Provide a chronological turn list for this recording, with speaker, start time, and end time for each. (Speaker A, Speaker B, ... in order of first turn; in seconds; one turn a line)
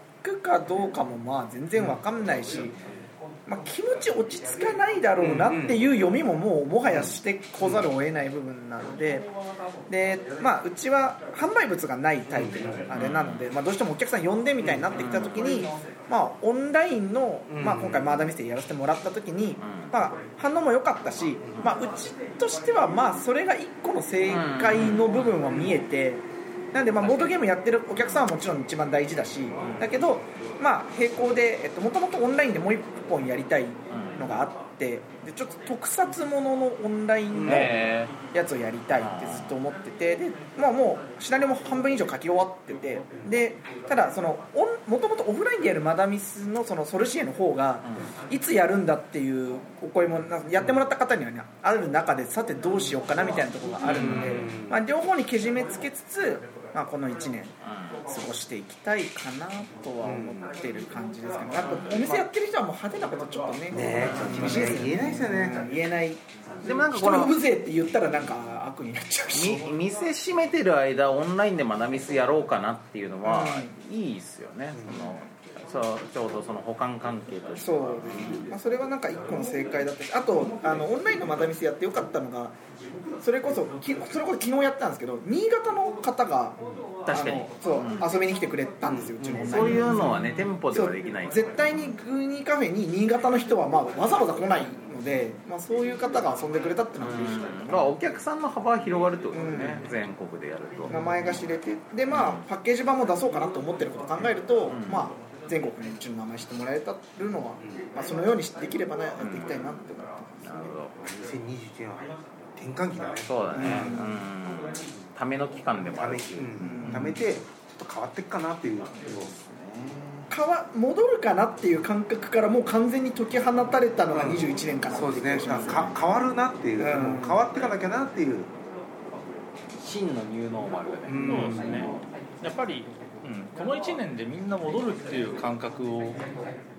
Speaker A: 0.2-2.7
Speaker A: 3.5-9.3
Speaker B: 5.2-5.8
Speaker B: 6.9-7.9
Speaker A: 9.9-57.5
Speaker B: 12.3-12.9
Speaker C: 12.9-13.5
Speaker B: 14.6-15.0
Speaker C: 14.9-15.7
Speaker B: 17.5-18.3
Speaker C: 19.6-19.9
Speaker C: 24.2-25.6
Speaker C: 27.0-28.2
Speaker C: 29.6-30.0
Speaker C: 33.9-34.4
Speaker B: 37.3-37.9
Speaker C: 37.4-38.1
Speaker C: 39.0-39.6
Speaker C: 47.8-48.1
Speaker C: 53.8-54.5
Speaker B: 53.8-54.8
Speaker C: 57.6-58.0
Speaker A: 58.1-69.7
Speaker B: 60.0-60.4
Speaker B: 63.7-65.7
Speaker C: 63.8-65.0
Speaker C: 66.6-67.4
Speaker C: 69.3-78.5
Speaker A: 73.2-73.7
Speaker B: 74.7-75.1
Speaker A: 77.6-82.5
Speaker A: 83.2-97.9
Speaker C: 87.0-88.2
Speaker B: 88.8-90.3
Speaker C: 89.3-92.0
Speaker C: 97.0-101.0
Speaker A: 99.3-99.8
Speaker A: 100.9-110.7
Speaker C: 102.1-102.4
Speaker C: 104.7-105.1
Speaker C: 109.2-111.0
Speaker B: 111.0-114.1
Speaker C: 113.2-117.2
Speaker A: 113.5-114.1
Speaker B: 115.9-119.3
Speaker A: 116.6-117.2
Speaker C: 119.0-120.3
Speaker A: 120.3-125.9
Speaker B: 124.1-128.5
Speaker C: 125.4-125.9
Speaker A: 126.8-127.5
Speaker C: 129.7-132.0
Speaker B: 131.1-132.0
Speaker D: 131.2-136.3